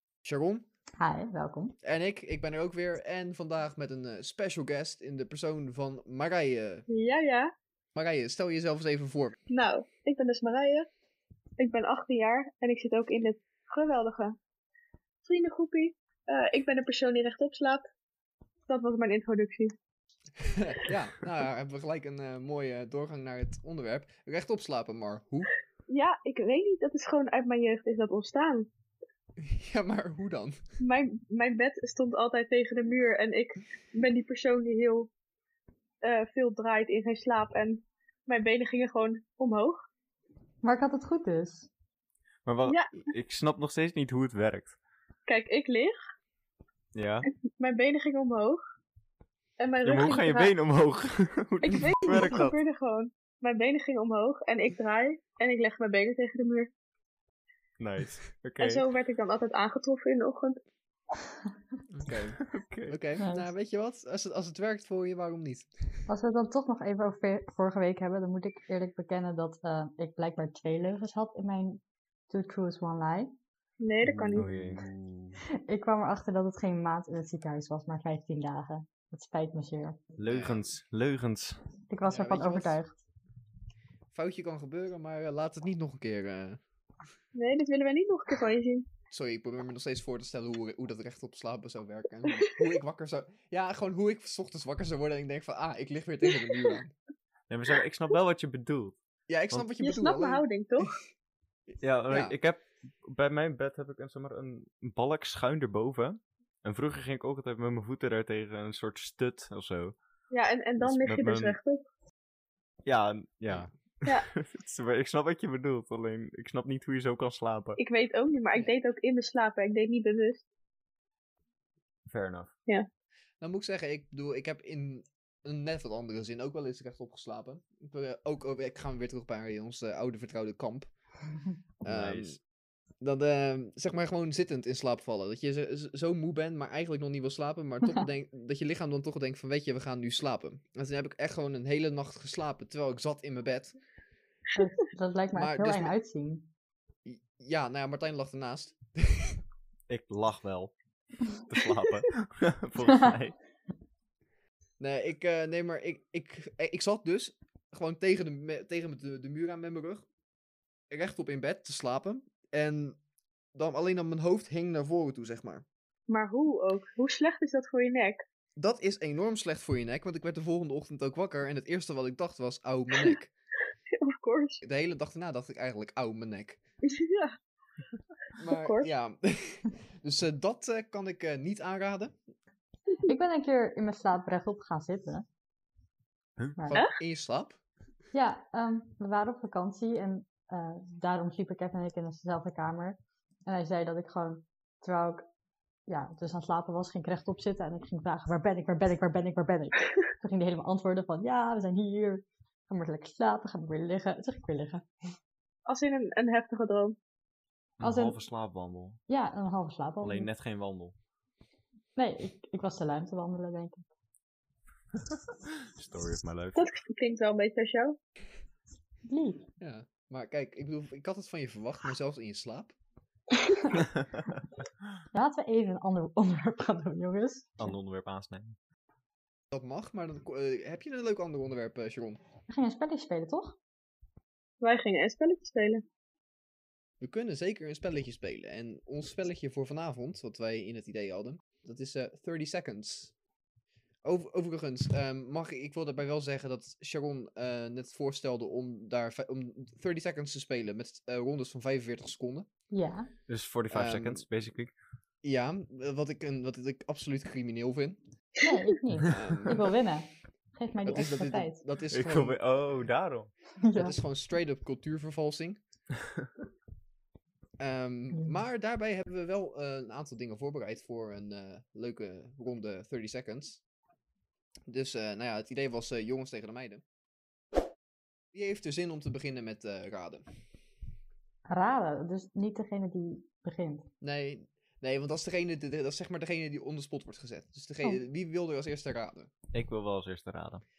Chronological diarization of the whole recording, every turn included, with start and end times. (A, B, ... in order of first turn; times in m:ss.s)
0:00.2-0:00.6 A
0:01.0-0:01.7 B
0:01.8-0:06.8 A
0:06.9-0:07.5 C
0:07.9-0:09.4 A
0:09.5-0:10.9 C
0:11.6-0:14.4 C
0:15.2-0:17.8 C
0:18.7-0:19.7 C
0:20.4-0:25.5 A
0:25.9-0:28.7 C
0:29.4-0:30.6 A
0:30.8-0:35.1 C
0:36.0-0:39.8 C
0:40.6-0:41.7 B
0:42.4-0:44.7 D
0:42.6-0:43.0 C
0:45.3-0:46.0 C
0:46.9-0:47.3 D
0:47.5-0:48.6 C
0:49.6-0:50.5 C
0:49.8-0:52.6 D
0:51.6-0:56.7 C
0:57.8-0:58.8 D
0:58.6-1:00.6 C
1:01.9-1:05.7 A
1:02.5-1:03.0 D
1:03.2-1:03.5 B
1:06.1-1:13.3 B
1:13.8-1:14.5 C
1:14.0-1:15.4 D
1:15.5-1:20.0 B
1:20.2-1:21.6 D
1:20.3-1:20.7 A
1:21.9-1:23.0 B
1:22.0-1:22.8 A
1:24.1-1:26.6 A
1:27.3-1:28.9 C
1:29.1-1:36.9 A
1:37.5-1:39.0 D
1:39.3-1:40.9 A
1:39.8-1:41.0 C
1:41.7-1:42.4 A
1:41.8-1:50.0 D
1:50.3-1:51.8 C
1:50.8-1:51.6 D
1:52.8-1:57.8 D
1:57.8-2:00.4 C
2:02.1-2:02.5 D
2:03.4-2:10.9 A
2:11.8-2:12.4 D
2:11.8-2:12.4 A
2:13.0-2:23.8 A
2:24.5-2:26.5 B
2:25.3-2:26.0 A
2:27.0-2:29.4 A
2:29.9-2:33.4 D
2:34.8-2:40.1 A
2:40.9-2:43.0 A
2:43.5-2:45.6 A
2:46.1-2:48.2 C
2:48.6-2:53.3 A
2:53.9-2:54.6 C
2:54.6-2:56.6 A
2:56.8-2:57.4 C
2:58.4-3:02.2 A
2:58.5-2:58.9 C
3:03.0-3:05.2 B
3:06.6-3:06.8 B
3:06.7-3:07.6 A
3:08.1-3:15.2 B
3:15.9-3:24.9 B
3:25.7-3:27.0 C
3:27.8-3:28.2 B
3:27.8-3:29.0 D
3:29.1-3:30.3 B
3:30.0-3:30.9 D
3:32.0-3:33.9 B
3:35.1-3:36.6 D
3:36.5-3:38.0 C
3:39.1-3:39.5 B
3:39.6-3:42.8 A
3:43.7-3:44.4 D
3:45.1-3:47.8 B
3:47.6-3:48.6 D
3:49.5-3:52.2 A
3:52.5-3:53.6 B
3:54.6-3:55.8 C
3:57.0-4:03.1 A
4:04.0-4:12.5 A
4:12.7-4:13.1 B
4:13.3-4:14.7 D
4:13.7-4:14.2 A
4:15.2-4:18.0 A
4:18.4-4:21.6 B
4:19.0-4:19.7 A
4:20.8-4:22.4 A
4:21.9-4:23.3 D
4:23.6-4:24.0 B
4:23.8-4:25.6 A
4:27.6-4:33.6 A
4:34.7-4:36.8 A
4:38.3-4:40.2 A
4:41.5-4:43.9 B
4:44.0-4:49.3 A
4:49.5-4:50.6 D